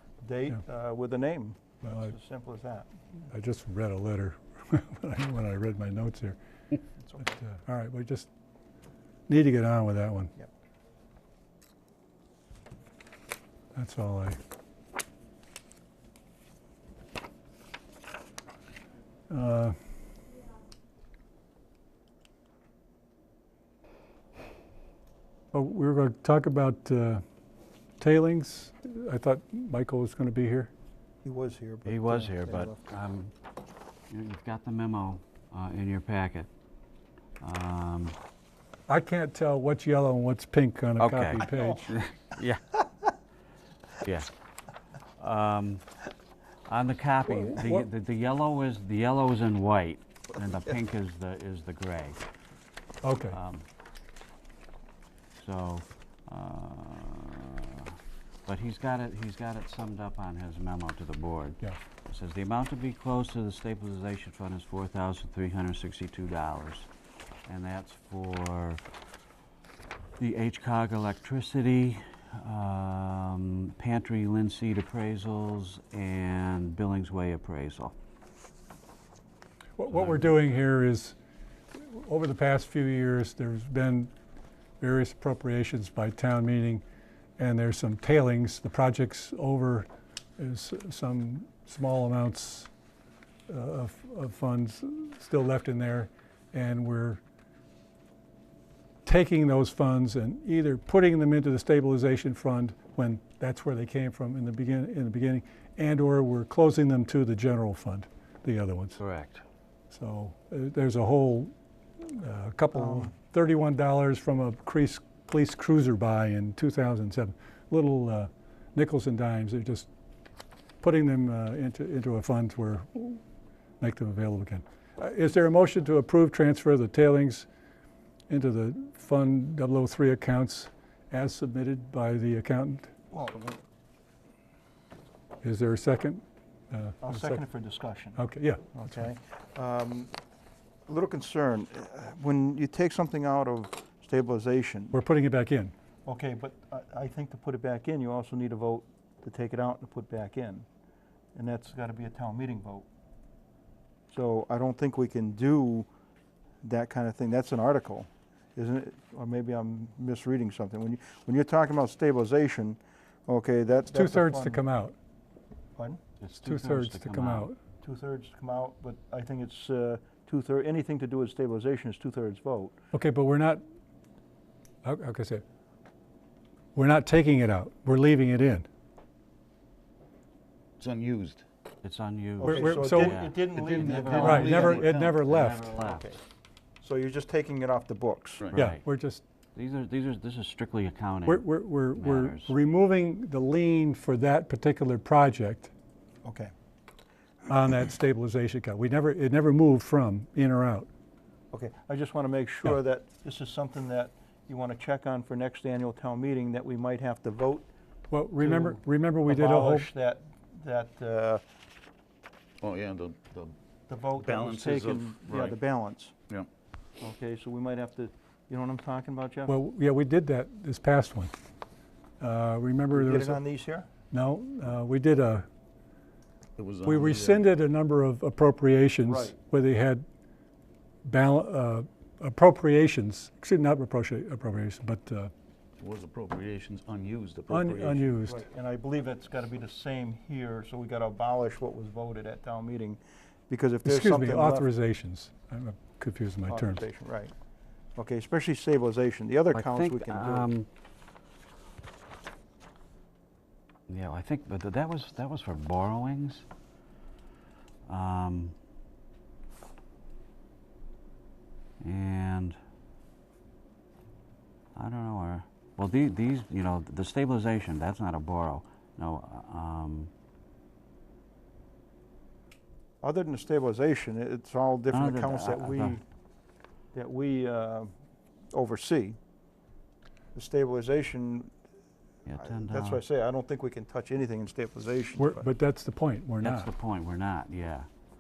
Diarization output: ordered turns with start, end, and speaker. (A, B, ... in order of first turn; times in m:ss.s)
0:00.2-0:02.9 A
0:01.8-0:02.1 B
0:03.3-0:06.4 B
0:07.2-0:08.3 B
0:09.3-0:10.3 B
0:13.8-0:14.4 B
0:19.3-0:19.8 B
0:25.5-0:27.2 B
0:28.0-0:30.7 B
0:31.2-0:32.8 A
0:31.8-0:33.3 C
0:34.1-0:36.5 C
0:37.4-0:38.2 C
0:38.9-0:41.8 B
0:41.0-0:42.8 C
0:44.0-0:44.3 C
0:45.2-0:45.8 C
0:46.7-0:52.2 C
0:47.3-0:47.9 B
0:53.0-0:53.4 B
0:53.3-0:53.6 C
0:55.4-1:06.9 C
1:07.5-1:08.8 C
1:10.2-1:18.0 C
1:19.8-1:21.2 B
1:19.9-1:20.4 C
1:21.7-1:24.1 B
1:24.8-1:26.8 B
1:27.4-1:32.7 B
1:33.5-1:37.2 B
1:39.0-1:49.0 B
1:49.0-1:49.4 C
1:49.9-1:59.9 B
1:52.8-1:53.1 A
2:00.8-2:03.2 B
2:03.8-2:07.5 B
2:08.3-2:12.9 B
2:13.1-2:13.6 A
2:15.4-2:17.4 B
2:17.0-2:18.2 A
2:18.2-2:19.1 B
2:18.7-2:20.1 A
2:20.9-2:25.0 A
2:24.9-2:25.7 B
2:26.1-2:30.7 A
2:31.4-2:32.9 A
2:34.1-2:35.9 A
2:36.6-2:44.6 A
2:43.9-2:45.0 B
2:46.2-2:47.5 C
2:46.4-2:47.6 B
2:47.8-2:52.8 A
2:52.9-2:53.6 B
2:54.8-2:55.4 B
2:56.8-2:58.7 B
3:00.8-3:01.4 D
3:01.8-3:06.0 C
3:02.4-3:03.2 B
3:02.4-3:04.9 A
3:03.5-3:05.2 D
3:04.2-3:05.7 B
3:05.8-3:06.2 A
3:06.8-3:08.5 A
3:08.5-3:08.8 C
3:08.6-3:09.2 B
3:09.6-3:12.5 C
3:11.3-3:15.7 B
3:16.2-3:16.5 A
3:17.5-3:20.9 B
3:21.5-3:27.7 A
3:28.1-3:29.9 B
3:28.4-3:31.4 A
3:32.6-3:33.6 D
3:33.9-3:36.2 A
3:34.2-3:35.6 D
3:37.0-3:39.5 A
3:39.5-3:41.3 B
3:42.2-3:43.4 B
3:42.9-3:43.9 A
3:44.1-3:45.5 B
3:46.6-3:47.4 D
3:46.8-3:50.0 B
3:49.0-3:49.4 A
3:51.1-3:55.3 B
3:55.8-3:58.1 D
3:57.5-3:58.5 B
3:58.3-4:04.7 A
4:03.8-4:06.8 B
4:06.5-4:07.3 A
4:08.0-4:10.5 A
4:09.5-4:10.7 C
4:13.9-4:16.4 C
4:17.9-4:18.6 C
4:21.8-4:22.6 C
4:24.8-4:30.1 C
4:33.0-4:36.0 A
4:34.9-4:36.0 C
4:36.9-4:37.9 A
4:38.5-4:39.2 A
4:40.4-4:41.5 A
4:42.3-4:43.0 C
4:42.4-4:45.4 A
4:45.2-4:46.7 B
4:46.4-4:47.9 C